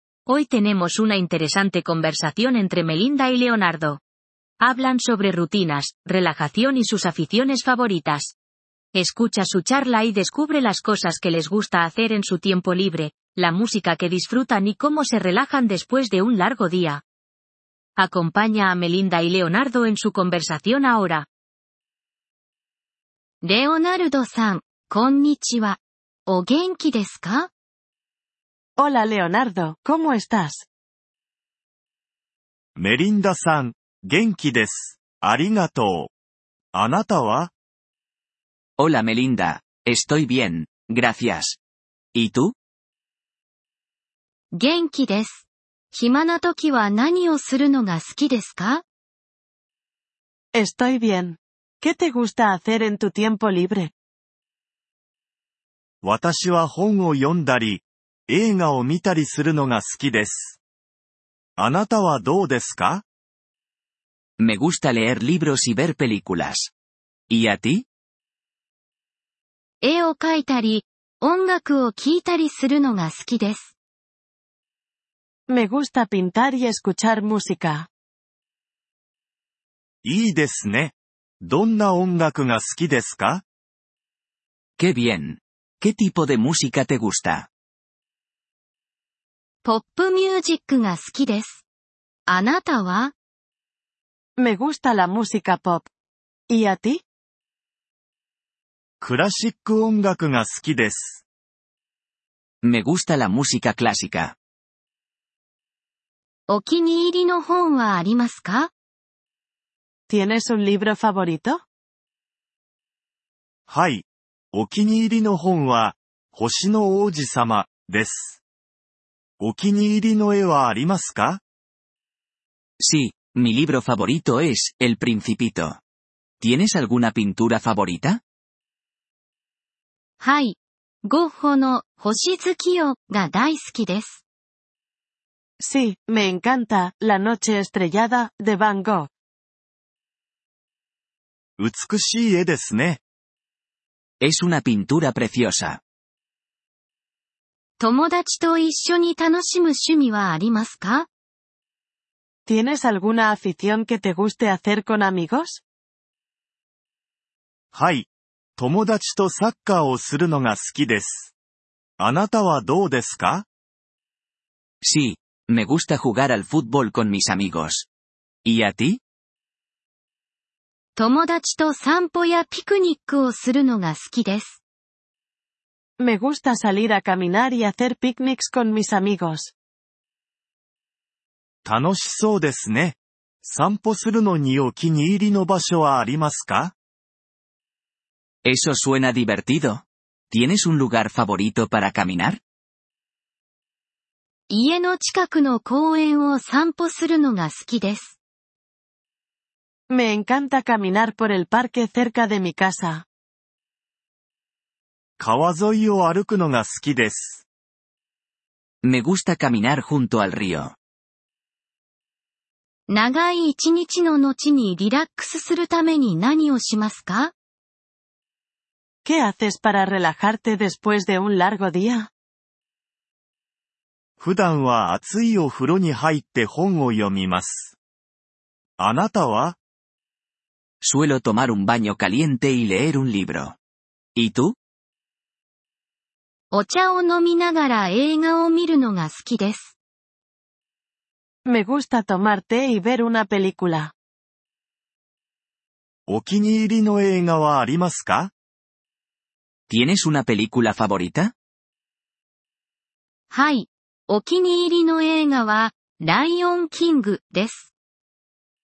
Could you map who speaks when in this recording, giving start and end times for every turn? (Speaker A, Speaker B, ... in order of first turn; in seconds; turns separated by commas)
Speaker A: 0.3-4.0, Speaker A: 4.6-8.3, Speaker A: 8.9-17.0, Speaker A: 18.0-21.3, Speaker B: 23.4-27.5, Speaker C: 28.8-30.7, Speaker D: 32.8-36.1, Speaker D: 36.7-37.5, Speaker E: 38.8-41.6, Speaker E: 42.1-42.5, Speaker B: 44.5-48.8, Speaker C: 50.5-53.9, Speaker D: 56.0-60.6, Speaker D: 61.6-63.0, Speaker E: 64.4-66.7, Speaker E: 67.3-67.9, Speaker B: 69.8-73.7, Speaker C: 75.5-77.9, Speaker D: 80.0-83.4, Speaker E: 84.8-87.5, Speaker B: 89.6-91.6, Speaker B: 92.3-93.1, Speaker C: 94.4-95.9, Speaker C: 96.5-97.0, Speaker D: 99.0-101.2, Speaker E: 102.6-104.3, Speaker B: 106.5-108.7, Speaker C: 110.1-111.6, Speaker D: 113.7-118.4, Speaker D: 119.4-121.4, Speaker E: 122.8-125.8, Speaker E: 126.4-128.2, Speaker B: 130.2-134.2, Speaker C: 135.6-139.1, Speaker D: 141.6-143.0, Speaker E: 144.2-145.8, Speaker B: 147.8-151.1, Speaker C: 152.5-155.6, Speaker D: 157.7-161.3, Speaker D: 162.0-163.5, Speaker E: 164.8-167.9, Speaker E: 168.4-169.0, Speaker B: 171.0-174.6, Speaker C: 176.0-179.5, Speaker D: 181.7-186.8, Speaker E: 188.4-192.4, Speaker B: 194.5-198.2, Speaker C: 199.9-203.1, Speaker D: 205.2-207.4, Speaker E: 208.8-210.8, Speaker B: 212.9-217.3, Speaker C: 219.1-222.1, Speaker D: 224.2-227.7, Speaker D: 228.8-229.6, Speaker E: 230.8-233.6, Speaker E: 234.2-234.6, Speaker B: 236.5-239.7, Speaker C: 241.5-243.9, Speaker D: 246.1-248.3, Speaker E: 249.7-251.3, Speaker B: 253.3-257.7